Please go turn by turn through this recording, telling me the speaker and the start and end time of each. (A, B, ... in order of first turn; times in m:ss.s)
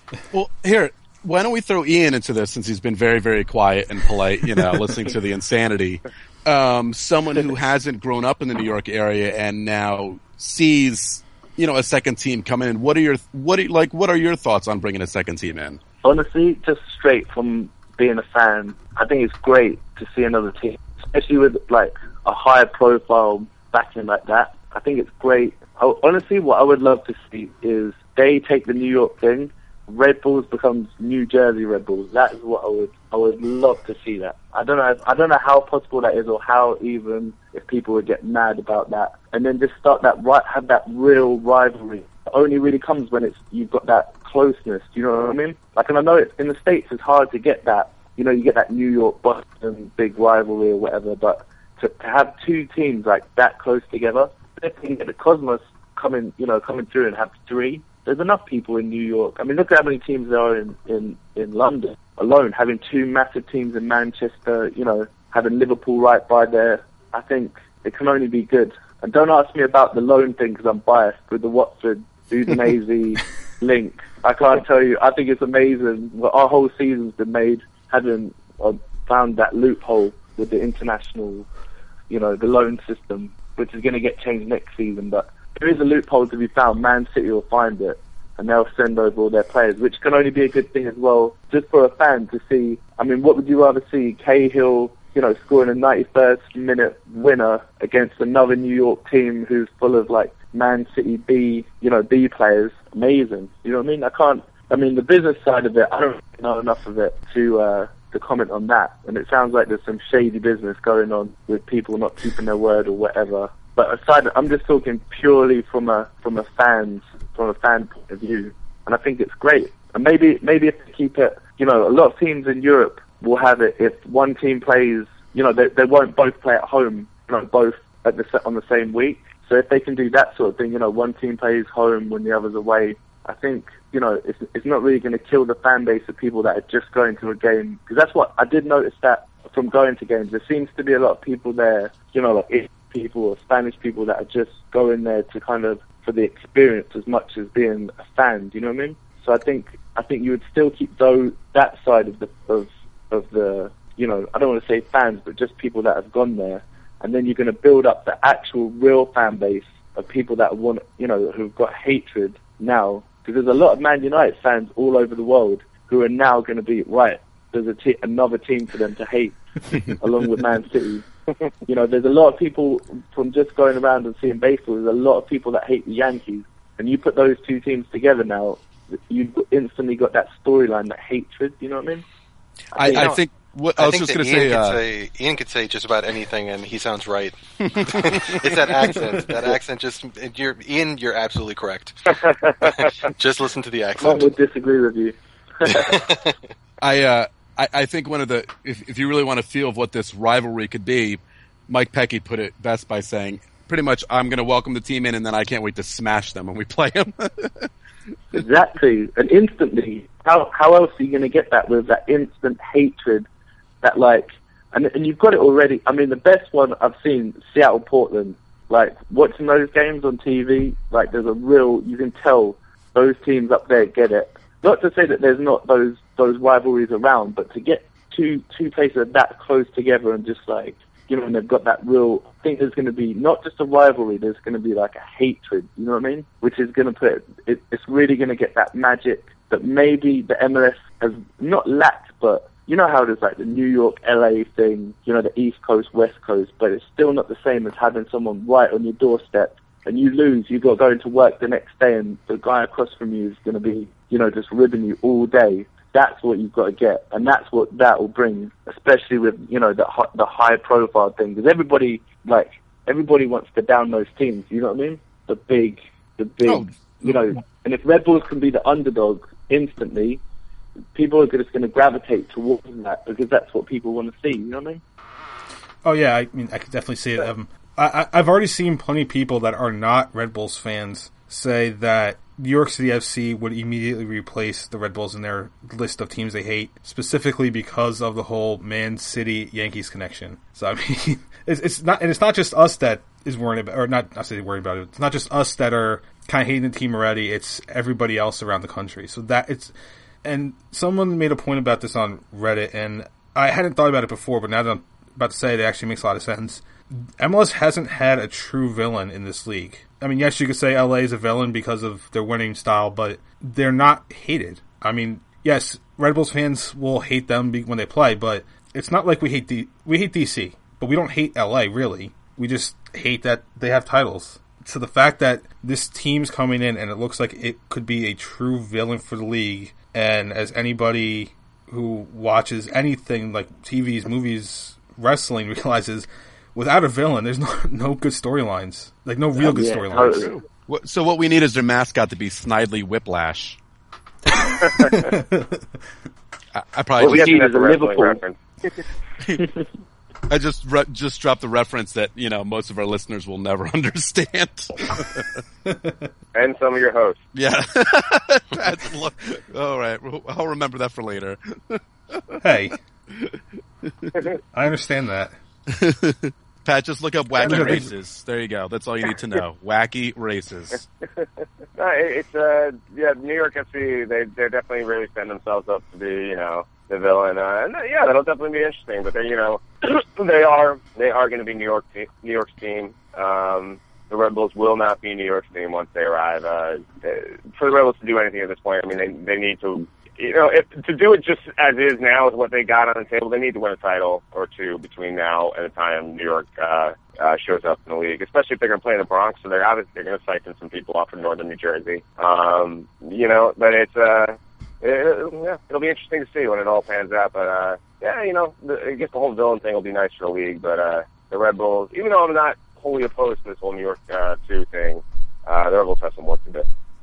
0:00.3-0:15.8 A
0:16.0-1:21.5 B
1:22.1-2:51.0 B
2:51.7-3:02.0 B
3:02.7-3:03.1 B
3:02.8-3:04.8 A
3:02.9-3:03.2 C
3:03.8-3:14.3 C
3:07.8-3:09.2 A
3:12.6-3:12.9 D
3:14.0-3:15.9 B
3:15.6-3:16.4 C
3:16.8-3:27.7 A
3:28.3-3:33.3 B
3:33.8-4:30.2 B
4:26.4-4:27.2 A
4:30.9-4:34.8 B
4:35.8-5:40.3 E
5:39.4-5:40.3 B
5:39.9-5:43.6 A
5:44.5-5:44.9 D
5:44.7-5:45.7 E
5:46.5-5:47.3 A
5:47.0-5:48.2 B
5:47.0-5:48.8 D
5:50.3-5:55.4 A
5:55.6-5:56.1 E
5:56.3-5:57.2 D
5:57.3-6:02.4 A
6:02.4-6:02.8 E
6:03.1-6:04.1 A
6:04.5-6:05.4 E
6:05.7-6:10.8 A
6:07.4-6:07.9 E
6:11.8-6:56.6 D